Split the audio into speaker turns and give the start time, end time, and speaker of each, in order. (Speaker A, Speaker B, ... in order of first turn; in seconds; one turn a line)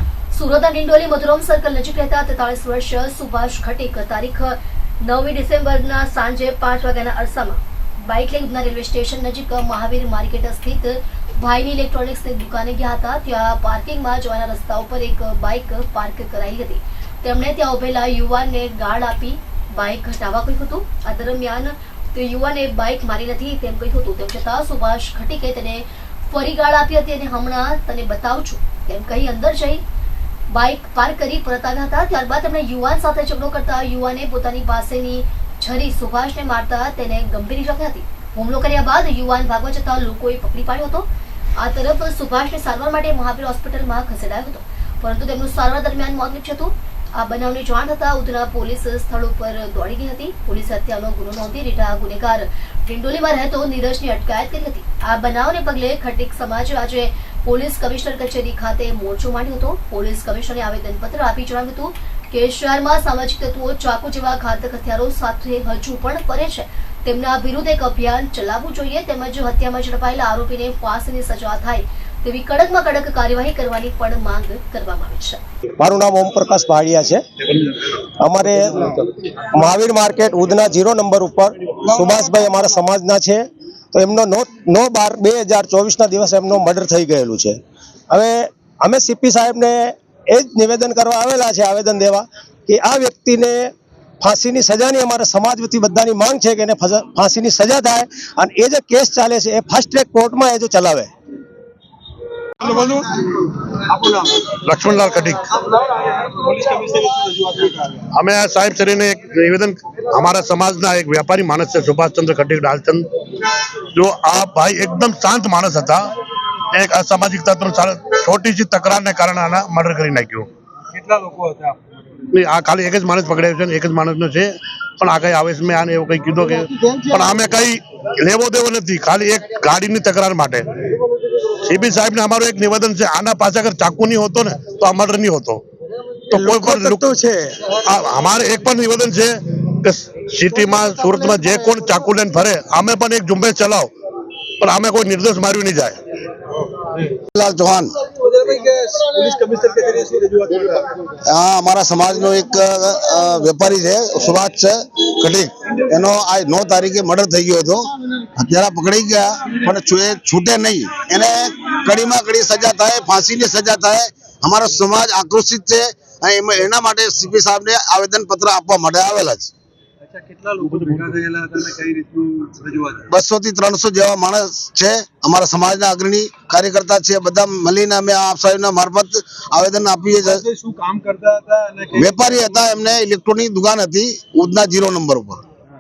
Speaker A: 0.3-29.8
Speaker A: 30.5-75.4
Speaker B: 75.8-77.2
Speaker B: 78.0-101.1
Speaker C: 102.6-103.1
Speaker C: 103.8-104.4
Speaker D: 104.6-105.5
Speaker C: 105.6-108.1
Speaker D: 108.1-113.1
Speaker D: 113.9-116.1
Speaker D: 116.7-120.5
Speaker C: 120.9-121.8
Speaker D: 122.3-130.7
Speaker D: 131.6-135.6
Speaker D: 136.3-137.0
Speaker B: 136.3-137.7
Speaker D: 137.7-143.9
Speaker D: 144.6-146.0
Speaker E: 147.3-147.9
Speaker C: 148.1-151.1
Speaker E: 151.2-169.5
Speaker C: 170.0-173.1
Speaker D: 170.7-171.2
Speaker E: 173.1-180.4
Speaker C: 180.2-182.7
Speaker E: 181.9-185.4